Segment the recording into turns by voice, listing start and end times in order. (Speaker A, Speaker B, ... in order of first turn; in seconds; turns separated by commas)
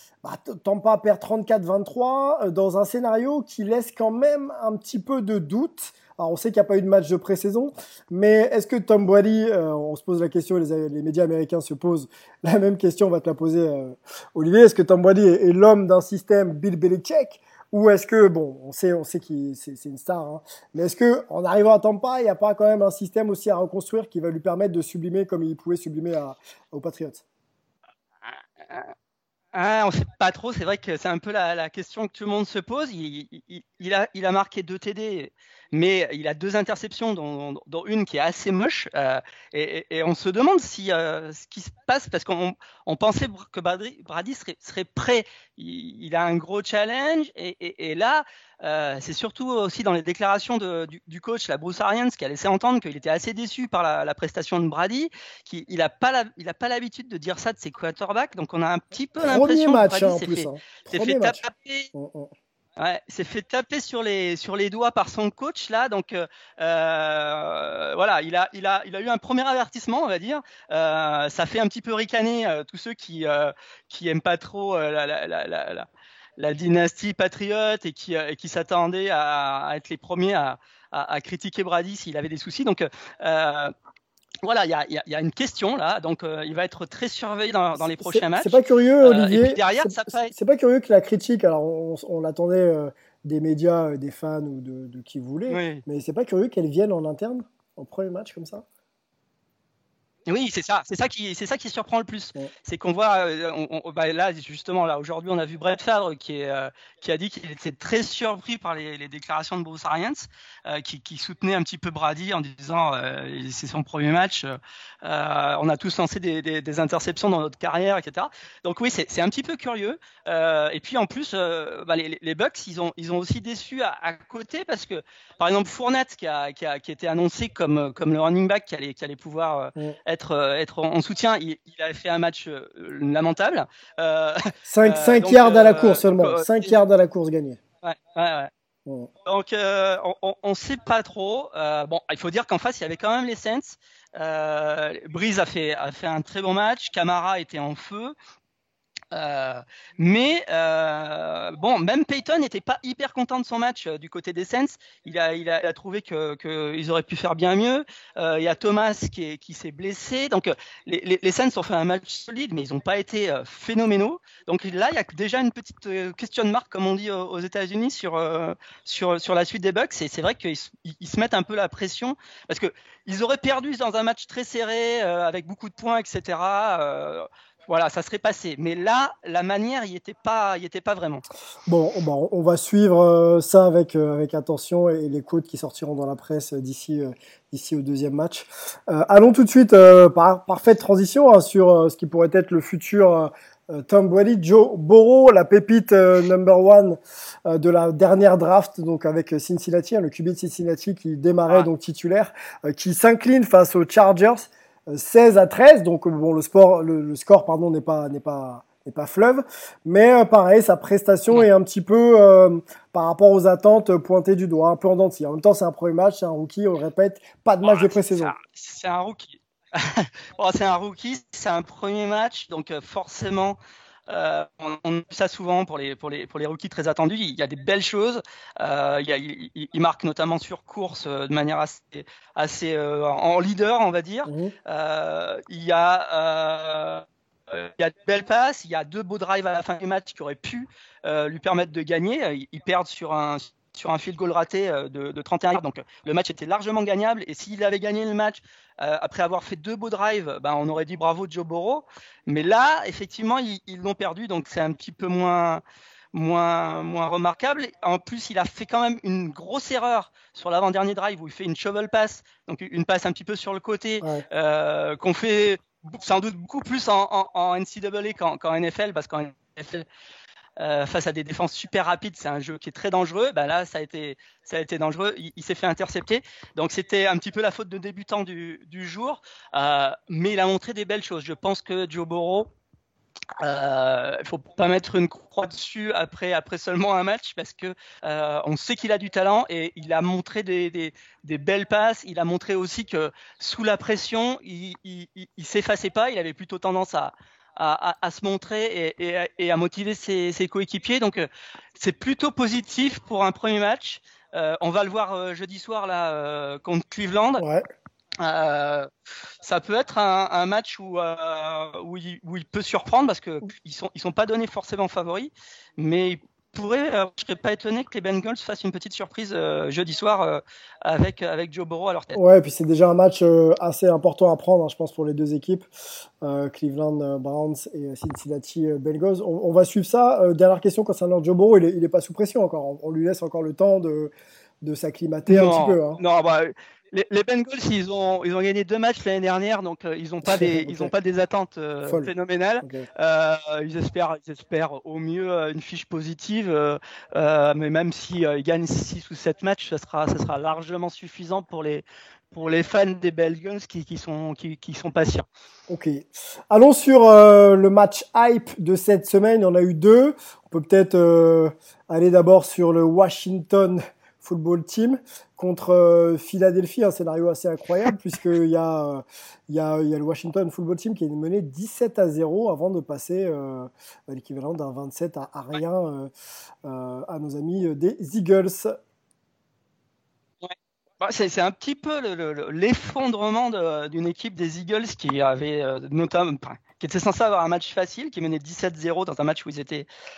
Speaker A: 0.2-27.2, Speaker B: 28.3-28.9, Speaker B: 29.5-61.9, Speaker A: 59.2-61.4, Speaker A: 61.9-62.3, Speaker B: 62.8-83.7, Speaker B: 84.4-90.3, Speaker A: 87.7-98.6, Speaker B: 95.5-95.8, Speaker B: 100.3-136.8, Speaker A: 134.7-137.6, Speaker B: 137.8-138.5, Speaker B: 139.2-148.1, Speaker B: 149.1-181.2, Speaker A: 181.7-218.3, Speaker B: 217.6-255.6, Speaker A: 234.2-234.5, Speaker B: 256.1-269.9, Speaker B: 270.6-282.5, Speaker B: 283.4-307.4, Speaker A: 307.4-307.6, Speaker B: 308.2-308.9, Speaker B: 309.4-322.2, Speaker A: 322.1-325.7, Speaker A: 326.2-336.0, Speaker B: 335.3-355.3, Speaker A: 340.2-340.9, Speaker A: 341.8-342.9, Speaker A: 355.7-376.1, Speaker A: 376.6-378.7, Speaker B: 380.4-389.9